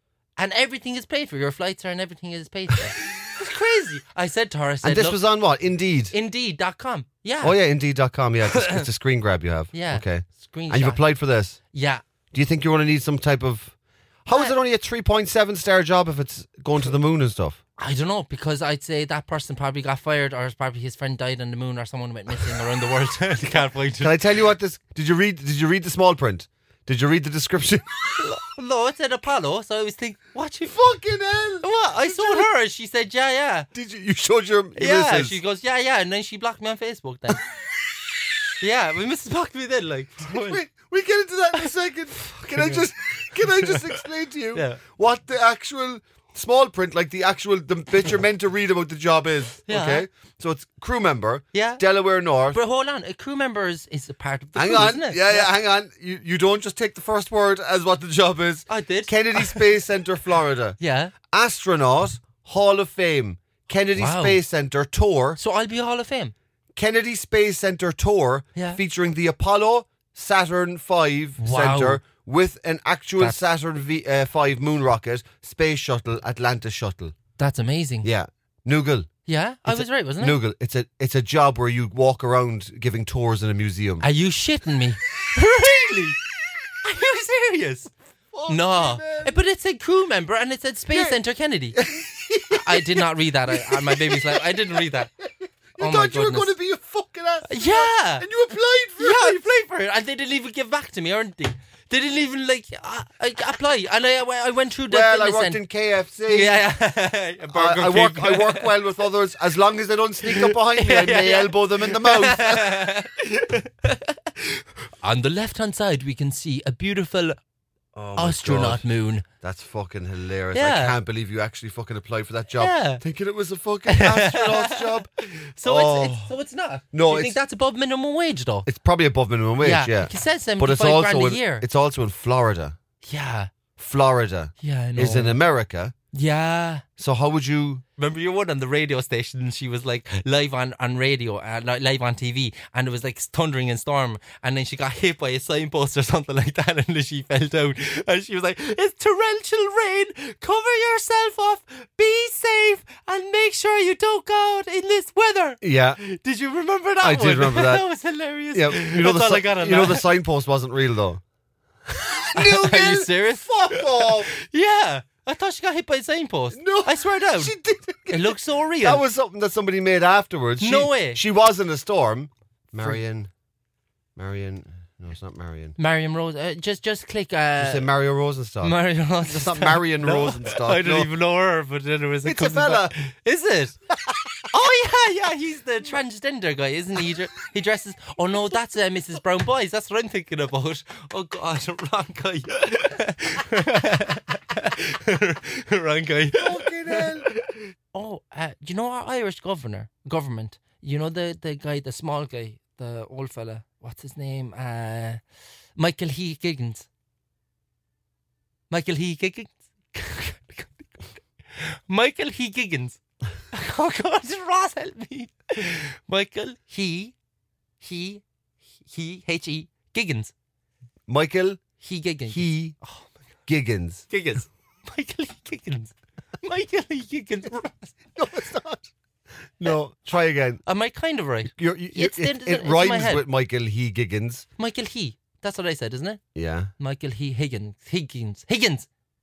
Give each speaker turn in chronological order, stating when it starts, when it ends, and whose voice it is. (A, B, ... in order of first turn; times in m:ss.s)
0:00.4-0:05.2 A
0:04.8-0:06.1 B
0:06.1-0:07.6 A
0:07.4-0:11.6 B
0:08.4-0:08.8 A
0:09.7-0:11.0 A
0:11.7-0:12.0 A
0:12.3-0:17.6 B
0:17.8-0:24.2 A
0:24.0-0:28.2 B
0:28.2-0:30.8 A
0:30.7-0:32.5 B
0:31.6-0:33.7 A
0:33.7-0:35.4 B
0:34.7-0:37.4 A
0:38.6-0:40.6 A
0:40.2-0:52.6 B
0:42.5-0:44.8 A
0:49.7-0:50.0 A
0:51.5-0:51.8 A
0:52.5-0:55.5 A
0:54.6-1:00.8 B
0:58.7-0:59.7 A
1:00.8-1:01.1 A
1:01.3-1:05.4 B
1:04.0-1:04.4 A
1:05.4-1:06.3 A
1:06.8-1:17.1 B
1:08.5-1:08.8 A
1:11.4-1:12.0 A
1:17.4-1:18.1 A
1:18.0-1:19.1 B
1:19.2-1:20.4 A
1:19.7-1:24.1 B
1:24.0-1:26.2 A
1:26.8-1:27.9 A
1:28.3-1:29.4 B
1:28.5-1:31.9 A
1:31.8-1:39.4 B
1:32.5-1:35.1 A
1:35.8-1:36.5 A
1:37.5-1:38.3 A
1:39.0-1:45.6 A
1:44.9-1:46.6 B
1:46.3-1:48.7 A
1:47.5-1:52.8 B
1:50.3-1:57.4 A
1:57.9-1:58.8 B
1:58.2-1:59.2 A
1:59.4-2:05.1 B
2:00.5-2:01.0 A
2:02.6-2:03.0 A
2:03.9-2:08.6 A
2:05.6-2:06.3 B
2:06.9-2:07.4 B
2:08.6-2:12.8 B
2:09.6-2:11.6 A
2:13.0-2:13.5 A
2:13.8-2:15.9 B
2:14.6-2:15.4 A
2:16.1-2:16.8 A
2:17.0-2:17.8 B
2:18.0-2:40.1 A
2:35.6-2:36.0 B
2:37.0-2:37.8 B
2:38.5-2:41.2 B
2:41.9-2:44.3 B
2:42.3-2:47.5 A
2:46.5-2:53.3 B
2:48.1-2:49.0 A
2:50.6-2:51.2 A
2:54.2-2:55.8 B
2:55.8-2:57.9 A
2:57.6-3:01.1 B
2:58.6-3:03.8 A
3:02.2-3:02.9 B
3:04.5-3:25.2 A
3:16.3-3:17.3 B
3:25.8-3:26.9 A
3:28.7-3:33.0 A
3:33.5-3:37.1 A
3:37.8-3:38.2 A
3:38.8-3:40.3 A
3:41.1-3:41.6 B
3:41.8-3:43.1 A
3:42.3-3:42.7 B
3:43.5-3:44.1 B
3:44.1-3:48.0 A
3:48.1-3:48.9 B
3:49.6-3:50.6 B
3:50.6-3:53.2 A
3:51.5-3:54.4 B
3:54.6-3:56.2 A
3:56.3-3:56.7 B
3:56.8-3:58.9 A